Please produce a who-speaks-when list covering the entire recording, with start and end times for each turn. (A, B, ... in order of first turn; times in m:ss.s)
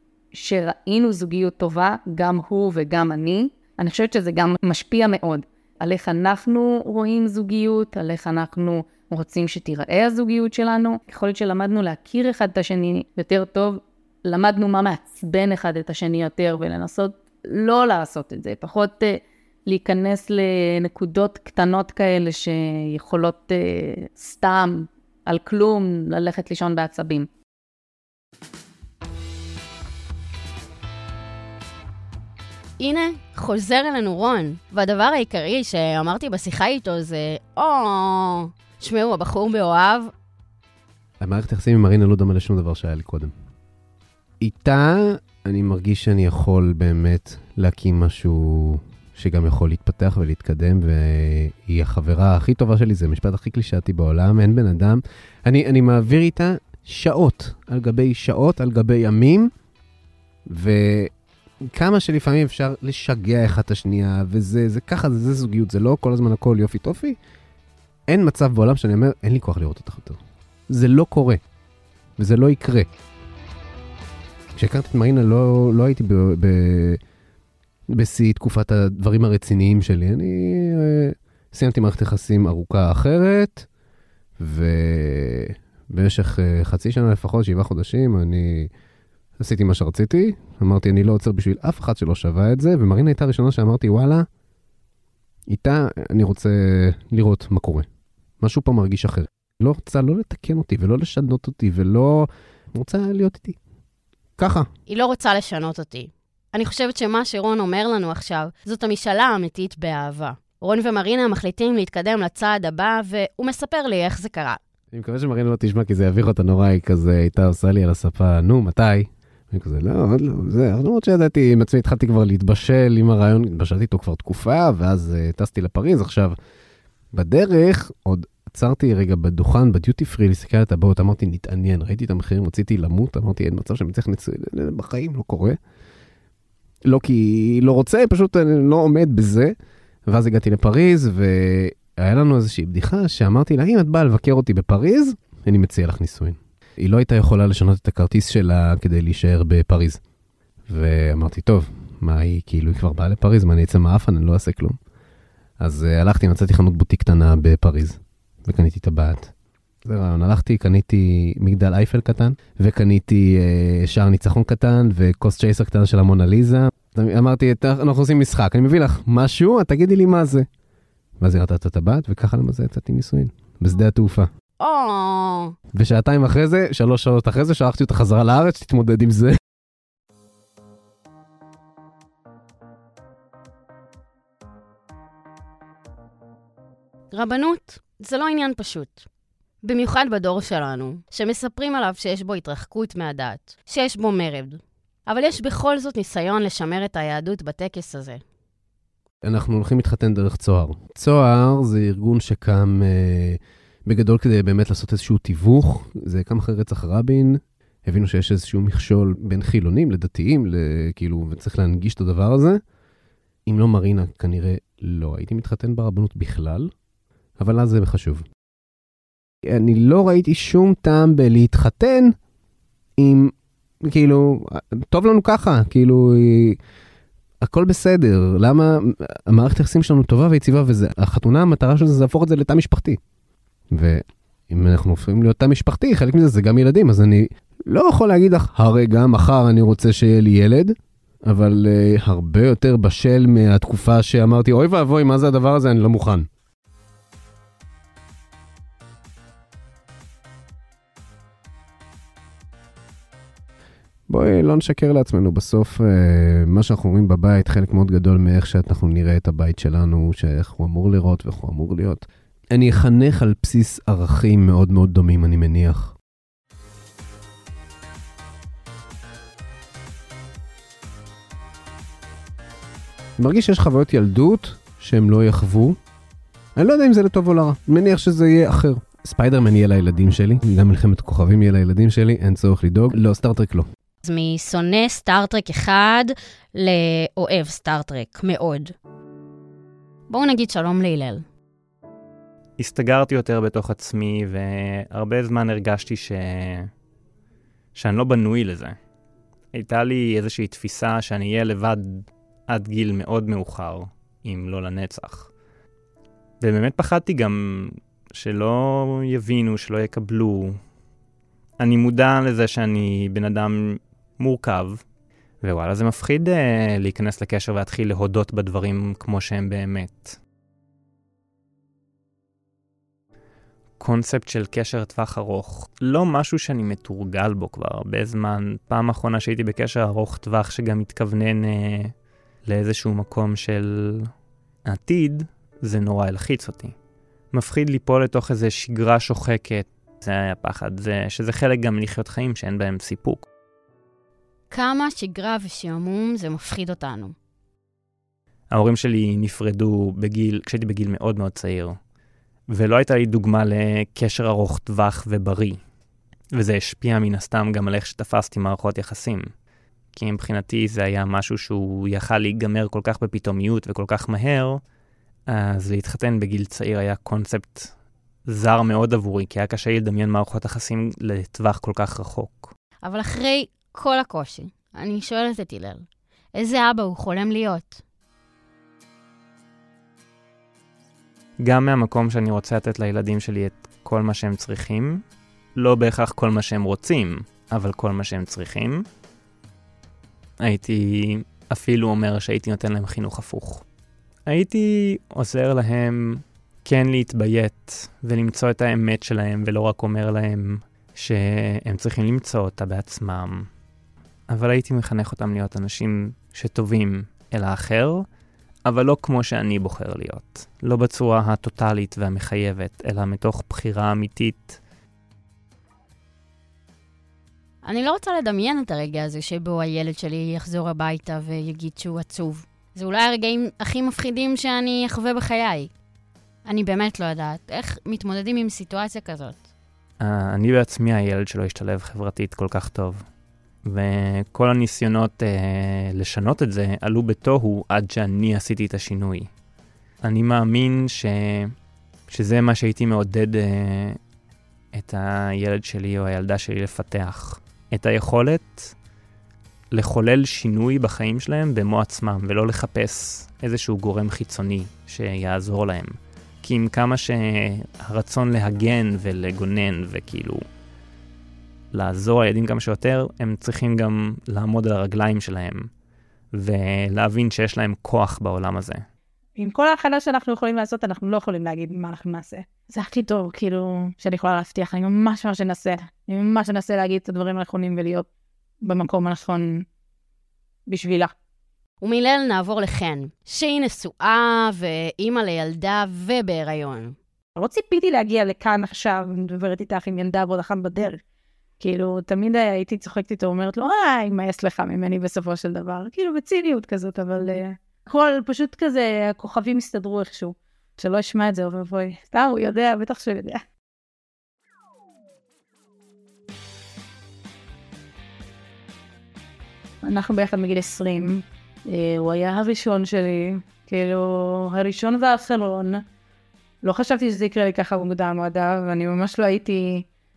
0:00.3-0:27.3 A
0:32.8-0:40.1 B
0:41.2-0:43.3 C
0:44.4-0:59.5 C
1:00.5-1:01.1 C
1:01.7-1:07.2 C
1:08.1-1:11.4 C
1:12.2-1:12.9 C
1:14.6-1:17.0 C
1:17.9-1:23.7 C
1:24.4-1:28.7 C
1:29.4-1:34.3 C
1:35.5-1:37.9 C
1:38.4-1:43.6 C
1:44.4-1:44.7 C
1:44.9-1:54.6 B
1:54.9-2:06.4 C
2:07.1-2:15.6 C
2:16.8-2:19.5 C
2:20.1-2:30.0 C
2:30.7-2:34.8 C
2:35.6-2:39.3 C
2:39.8-2:50.5 C
2:51.2-2:54.3 C
2:54.6-2:55.6 B
2:55.7-2:59.4 C
3:07.1-3:09.1 B
3:09.6-3:18.2 B
3:19.2-3:32.6 C
3:33.5-3:36.7 C
3:37.4-3:38.2 C
3:39.5-3:42.2 C
3:43.0-3:46.6 C
3:47.4-3:53.0 C
3:53.7-4:06.3 C
4:14.1-4:25.9 C
4:33.2-4:35.8 C
4:36.6-4:43.7 C
4:44.0-4:48.8 B
4:50.1-4:51.3 B
4:52.6-4:56.7 D
4:57.8-4:58.8 D
4:59.5-5:05.3 D
5:06.4-5:10.6 D
5:11.6-5:14.8 D
5:15.4-5:20.2 D
5:23.8-5:31.9 D
5:32.5-5:34.1 D
5:34.7-5:36.7 D
5:37.3-5:43.3 D
5:44.5-5:47.2 B
5:48.5-5:51.8 D
5:52.5-5:55.6 D
5:56.3-5:59.3 D
5:59.9-6:04.6 D
6:05.3-6:07.7 D
6:08.3-6:12.5 D
6:12.8-6:17.8 B
6:21.4-6:25.0 D
6:25.6-6:28.8 D
6:30.4-6:33.6 D
6:34.3-6:43.5 D
6:44.3-6:48.1 D
6:48.7-6:54.6 D
6:57.6-7:05.7 B
7:06.5-7:09.5 B
7:10.0-7:13.0 D
7:13.6-7:19.3 D
7:20.0-7:21.5 D
7:22.1-7:24.0 D
7:24.7-7:28.7 D
7:29.7-7:40.4 D
7:41.7-7:45.7 D
7:46.3-7:48.8 D
7:49.4-7:58.1 A
7:58.6-7:59.6 A
8:00.7-8:01.1 A
8:01.8-8:07.0 B
8:07.4-8:11.0 A
8:11.6-8:23.4 A
8:29.8-8:35.8 A
8:36.6-8:39.8 A